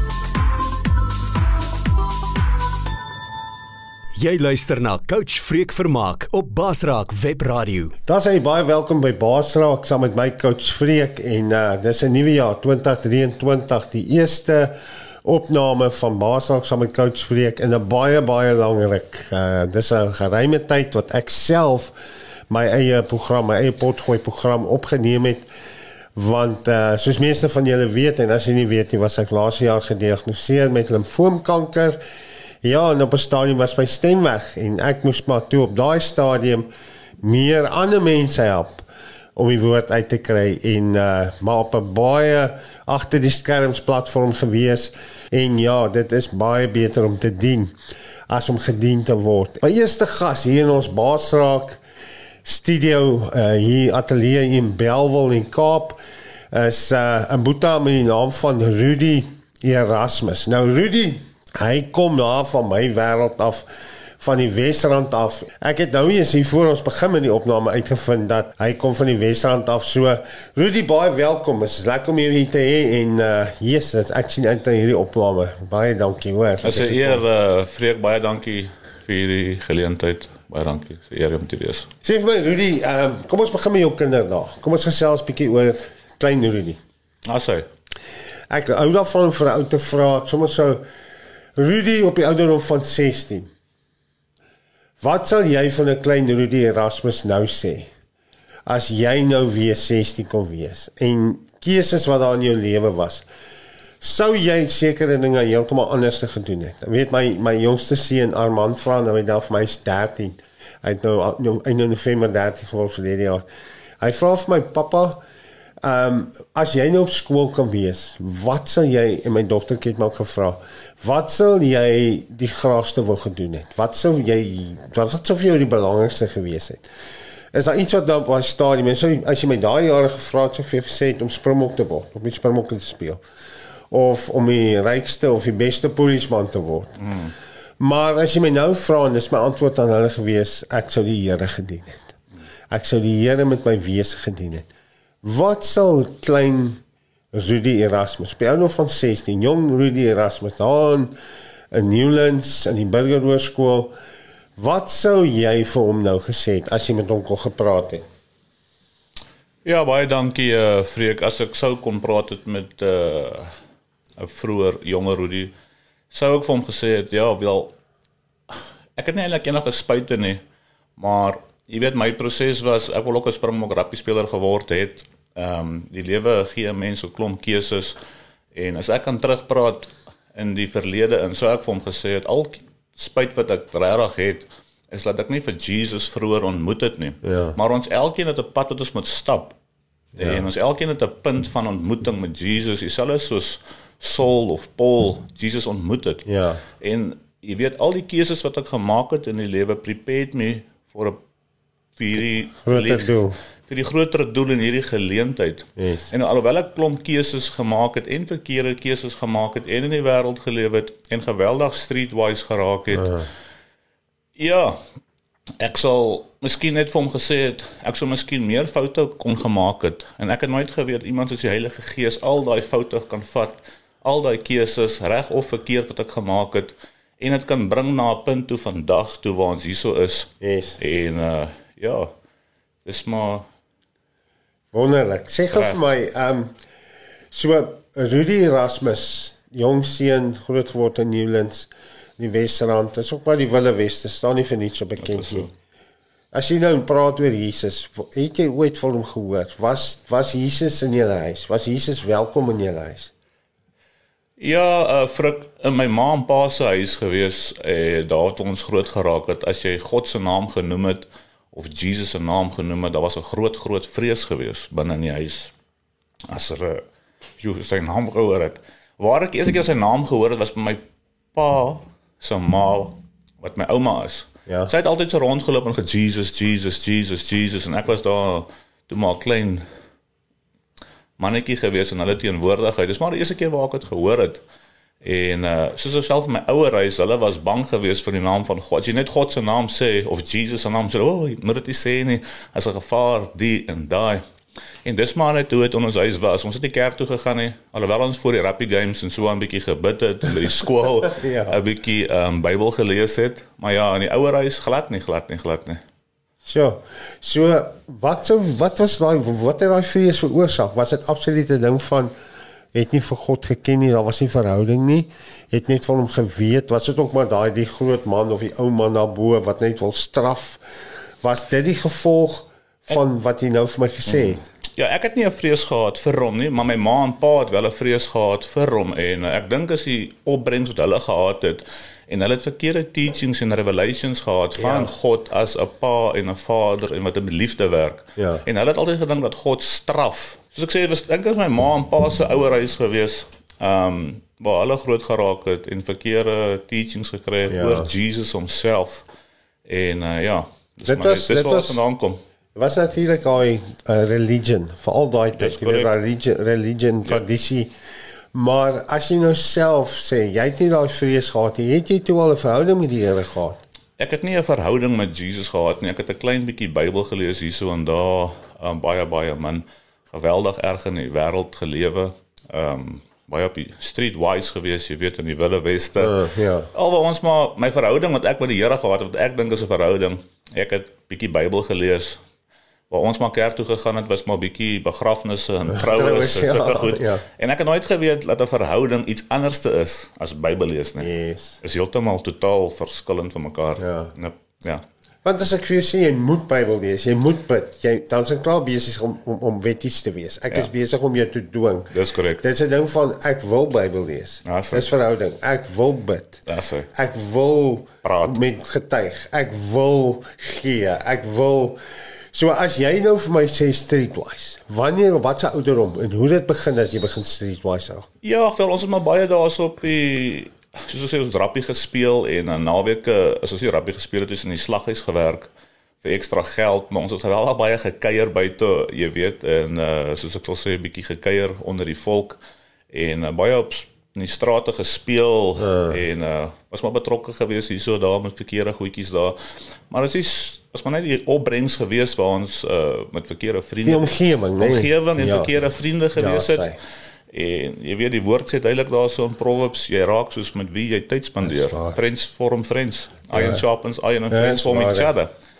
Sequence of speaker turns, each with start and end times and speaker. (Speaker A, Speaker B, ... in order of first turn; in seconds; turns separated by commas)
Speaker A: 4.2-7.9, Speaker B: 8.1-21.9, Speaker B: 22.5-25.5, Speaker B: 26.1-32.0, Speaker B: 32.6-36.7, Speaker B: 37.2-38.8, Speaker B: 39.4-47.7, Speaker B: 48.3-51.8, Speaker B: 52.4-56.0, Speaker B: 56.5-63.6, Speaker B: 64.2-77.2, Speaker C: 76.6-81.9, Speaker B: 82.0-86.8, Speaker C: 87.2-87.7, Speaker B: 88.5-90.8, Speaker B: 91.5-93.5, Speaker B: 95.0-97.9, Speaker B: 98.7-103.2, Speaker B: 104.0-113.4, Speaker B: 114.0-115.2, Speaker B: 115.8-126.9, Speaker B: 127.5-133.2, Speaker B: 133.9-137.0, Speaker C: 137.0-137.3, Speaker B: 137.8-142.1, Speaker B: 142.7-144.7, Speaker B: 145.2-146.8, Speaker B: 147.3-151.2, Speaker B: 151.7-153.9, Speaker B: 154.6-158.0, Speaker C: 159.6-163.5, Speaker C: 164.2-165.5, Speaker C: 166.1-167.7, Speaker C: 168.5-170.4, Speaker C: 171.0-178.0, Speaker C: 178.5-189.6, Speaker B: 187.2-187.6, Speaker C: 190.2-196.2, Speaker B: 190.2-190.4, Speaker B: 196.2-196.6, Speaker C: 196.8-201.2, Speaker C: 201.9-213.2, Speaker B: 202.6-203.4, Speaker B: 205.8-206.1, Speaker B: 212.9-213.3, Speaker C: 214.3-214.8, Speaker C: 215.6-232.1, Speaker B: 230.4-230.8, Speaker C: 232.8-233.5, Speaker B: 234.7-236.5, Speaker C: 235.5-235.8, Speaker B: 237.3-245.5, Speaker C: 245.0-245.5, Speaker B: 246.3-253.1, Speaker C: 254.4-265.5, Speaker C: 266.3-266.8, Speaker C: 267.4-270.8, Speaker C: 271.3-279.6, Speaker C: 281.2-284.4, Speaker C: 285.0-294.2, Speaker C: 294.8-305.8, Speaker B: 301.1-301.6, Speaker B: 306.4-312.1, Speaker B: 312.7-320.6, Speaker B: 321.2-324.4, Speaker C: 324.1-349.1, Speaker B: 334.6-334.9, Speaker B: 338.2-338.4, Speaker B: 347.5-347.9, Speaker C: 349.6-352.2, Speaker B: 350.9-351.8, Speaker B: 352.5-357.7, Speaker C: 355.4-355.9, Speaker B: 358.3-363.6, Speaker C: 364.0-382.2, Speaker B: 376.0-376.7, Speaker C: 382.9-391.1, Speaker B: 385.7-387.2, Speaker B: 391.0-391.6, Speaker C: 391.6-394.8, Speaker B: 393.8-394.1, Speaker B: 395.2-406.4, Speaker C: 401.9-402.4, Speaker C: 404.4-404.9, Speaker C: 406.5-406.9, Speaker B: 406.9-411.8, Speaker C: 408.0-408.4, Speaker B: 412.3-418.1, Speaker C: 418.2-425.5, Speaker C: 426.0-432.4, Speaker C: 432.9-439.4, Speaker B: 435.6-436.0, Speaker C: 439.9-446.7, Speaker B: 443.8-445.5, Speaker B: 446.1-446.8, Speaker C: 447.3-455.3, Speaker B: 451.4-452.0, Speaker B: 453.3-453.6, Speaker B: 454.3-455.1